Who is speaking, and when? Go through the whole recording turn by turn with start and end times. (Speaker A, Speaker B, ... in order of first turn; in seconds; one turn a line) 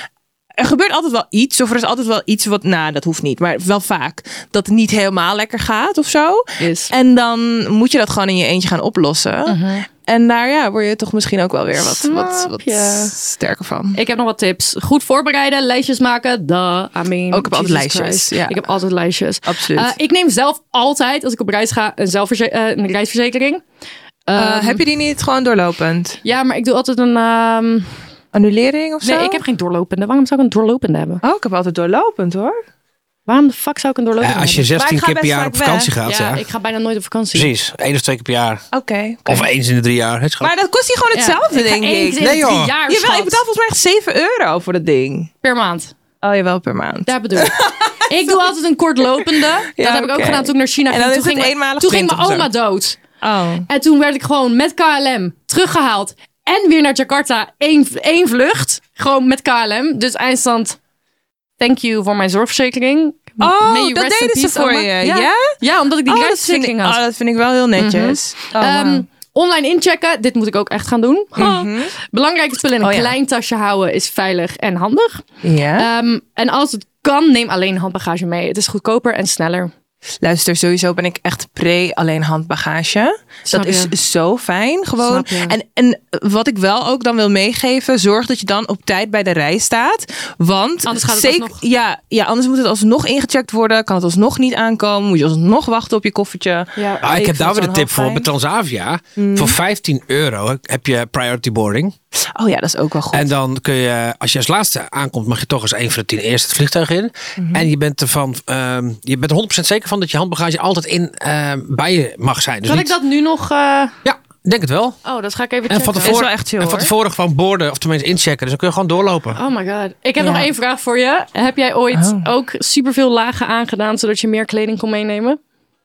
Speaker A: 0.6-14.0
Speaker B: 6.6-6.9
Speaker B: 9.5-9.9
Speaker B: 11.8-13.1
Speaker B: 13.9-23.6
Speaker A: 17.3-18.7
Speaker A: 19.5-19.9
Speaker B: 24.3-24.8
Speaker A: 24.4-26.2
Speaker B: 26.2-27.9
Speaker A: 28.3-29.4
Speaker B: 29.0-31.2
Speaker A: 31.2-32.6
Speaker B: 33.3-34.7
Speaker C: 34.2-36.4
Speaker A: 34.7-35.9
Speaker B: 36.0-37.5
Speaker C: 37.4-38.6
Speaker A: 38.7-39.5
Speaker C: 39.3-40.5
Speaker A: 40.4-45.3
Speaker B: 41.1-43.4
Speaker C: 42.2-42.7
Speaker B: 45.4-45.9
Speaker A: 46.2-48.5
Speaker B: 47.1-53.0
Speaker A: 49.2-52.5
Speaker A: 53.2-53.7
Speaker B: 53.7-60.8
Speaker B: 61.6-67.0
Speaker A: 63.4-65.5
Speaker A: 66.1-69.0
Speaker B: 67.8-75.3
Speaker A: 71.4-71.9
Speaker A: 72.8-73.2
Speaker A: 75.4-75.9
Speaker B: 75.8-79.7
Speaker A: 80.2-98.3
Speaker B: 83.5-83.9
Speaker B: 85.0-85.6
Speaker B: 90.9-91.6
Speaker B: 96.8-97.1
Speaker C: 97.0-102.0
Speaker A: 99.2-99.6
Speaker A: 102.2-103.3
Speaker C: 103.1-112.9
Speaker A: 107.4-107.7
Speaker B: 112.7-114.0
Speaker C: 114.0-115.0
Speaker B: 115.0-116.3
Speaker C: 115.7-119.4
Speaker A: 116.0-116.9
Speaker B: 119.3-125.4
Speaker A: 120.2-120.5
Speaker A: 121.9-122.3